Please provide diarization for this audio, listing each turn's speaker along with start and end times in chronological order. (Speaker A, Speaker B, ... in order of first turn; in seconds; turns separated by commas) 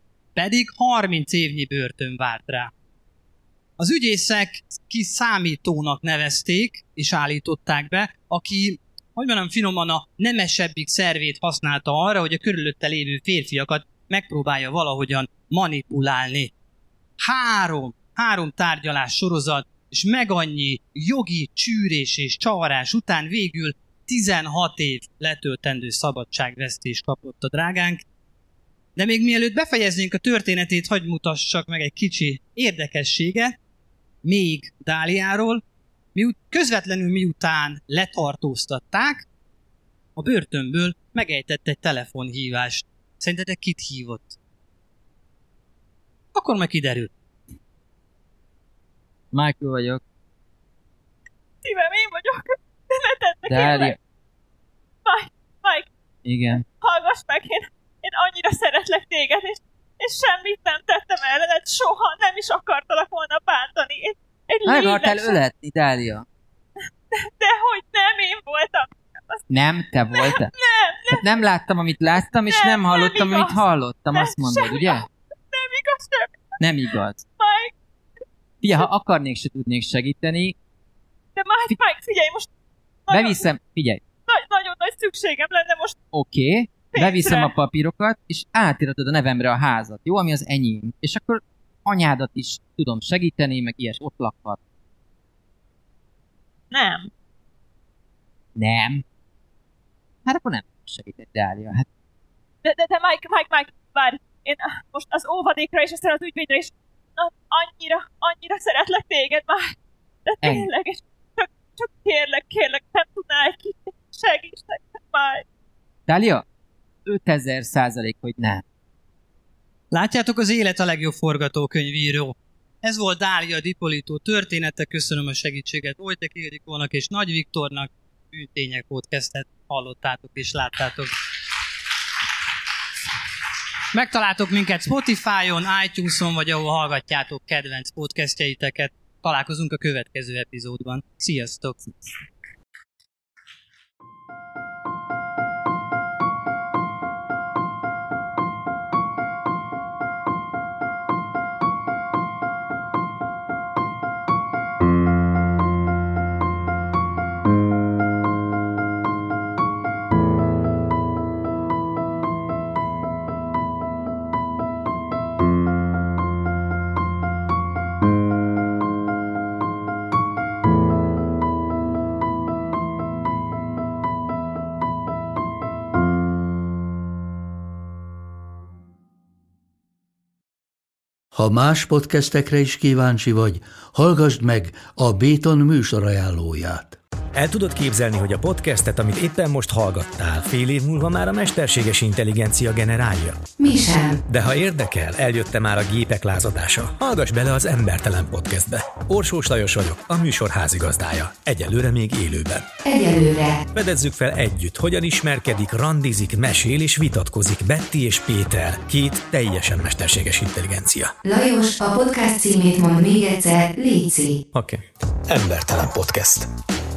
Speaker A: 0.3-2.7, Speaker A: 3.8-16.5, Speaker A: 17.2-28.0, Speaker A: 29.0-33.5, Speaker A: 34.2-35.6, Speaker A: 36.1-39.2, Speaker A: 40.2-44.4, Speaker A: 46.3-47.1, Speaker B: 49.3-50.0, Speaker C: 51.6-54.0, Speaker B: 53.5-54.0, Speaker C: 55.0-55.9, Speaker B: 56.2-56.6, Speaker C: 56.6-65.4, Speaker B: 64.6-66.2, Speaker C: 67.1-69.4, Speaker B: 69.5-70.5, Speaker C: 70.1-71.4, Speaker B: 71.1-75.1, Speaker C: 72.5-73.6, Speaker C: 74.1-76.5, Speaker B: 76.6-77.2, Speaker C: 77.4-77.7, Speaker B: 78.6-80.5, Speaker C: 81.3-82.5, Speaker C: 83.1-83.5, Speaker B: 83.1-84.0, Speaker C: 84.3-86.0, Speaker B: 86.1-94.6, Speaker C: 86.9-87.5, Speaker C: 96.7-97.1, Speaker B: 98.5-99.0, Speaker B: 100.2-101.8, Speaker C: 102.6-115.4, Speaker B: 110.4-110.7, Speaker B: 116.1-116.4, Speaker B: 117.0-118.6, Speaker A: 119.9-131.1, Speaker A: 133.9-142.1, Speaker D: 181.3-187.0, Speaker E: 187.3-193.5, Speaker F: 193.6-194.2, Speaker E: 194.2-202.8, Speaker F: 202.8-203.6, Speaker E: 203.7-211.2, Speaker F: 211.2-214.4, Speaker E: 214.5-216.5